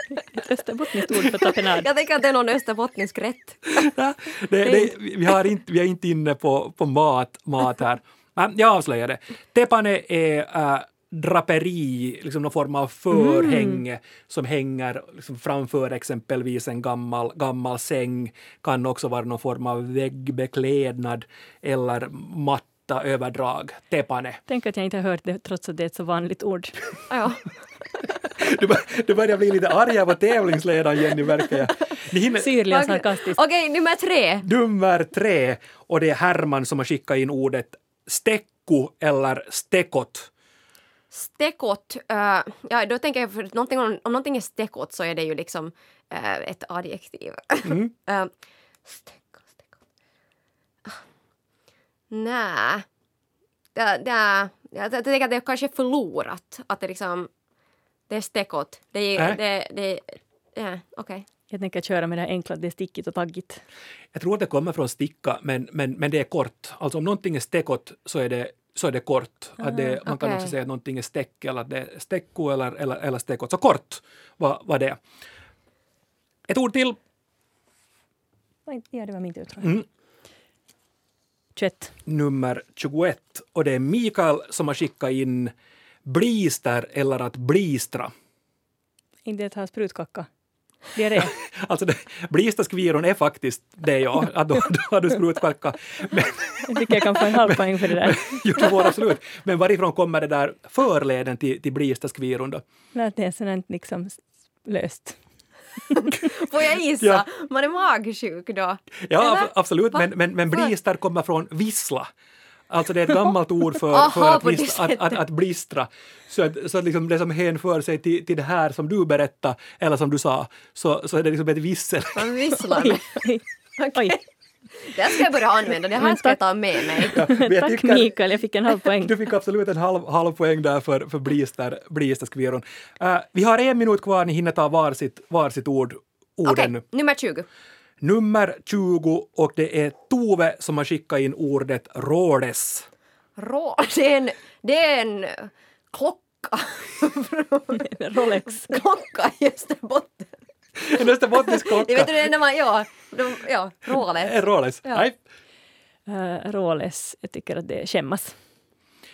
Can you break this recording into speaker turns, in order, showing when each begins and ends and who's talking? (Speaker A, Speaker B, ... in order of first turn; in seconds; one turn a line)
Speaker A: 0.1-1.9
Speaker B: 1.3-3.9
Speaker C: 3.7-24.4
Speaker A: 13.1-13.8
Speaker A: 24.5-26.8
Speaker B: 27.1-27.5
Speaker C: 28.4-32.7
Speaker A: 32.4-33.4
Speaker B: 32.6-34.4
Speaker C: 34.4-40.3
Speaker B: 41.1-48.3
Speaker C: 47.6-47.9
Speaker B: 48.9-49.7
Speaker B: 52.1-52.9
Speaker B: 53.7-57.3
Speaker B: 58.1-61.2
Speaker A: 61.5-63.6
Speaker C: 64.1-75.0
Speaker A: 69.6-70.0
Speaker B: 70.0-70.5
Speaker C: 76.5-77.0
Speaker A: 78.7-79.7
Speaker C: 79.6-79.9
Speaker A: 81.5-81.9
Speaker C: 82.0-85.5
Speaker C: 86.0-88.1
Speaker A: 89.2-90.3
Speaker A: 90.9-91.4
Speaker C: 91.3-102.6
Speaker A: 96.7-98.7
Speaker A: 102.9-105.2
Speaker B: 105.9-110.7
Speaker C: 109.0-112.1
Speaker C: 112.7-122.3
Speaker B: 113.9-115.2
Speaker B: 122.1-123.2
Speaker A: 122.7-123.4
Speaker B: 123.8-124.2
Speaker B: 124.8-127.3
Speaker A: 126.0-129.2
Speaker C: 127.1-128.1
Speaker C: 129.0-136.8
Speaker B: 136.4-137.4
Speaker C: 138.0-142.9
Speaker B: 143.4-150.3
Speaker A: 147.7-148.8
Speaker C: 150.8-152.3
Speaker B: 151.0-155.0
Speaker C: 154.2-155.2
Speaker A: 156.1-158.3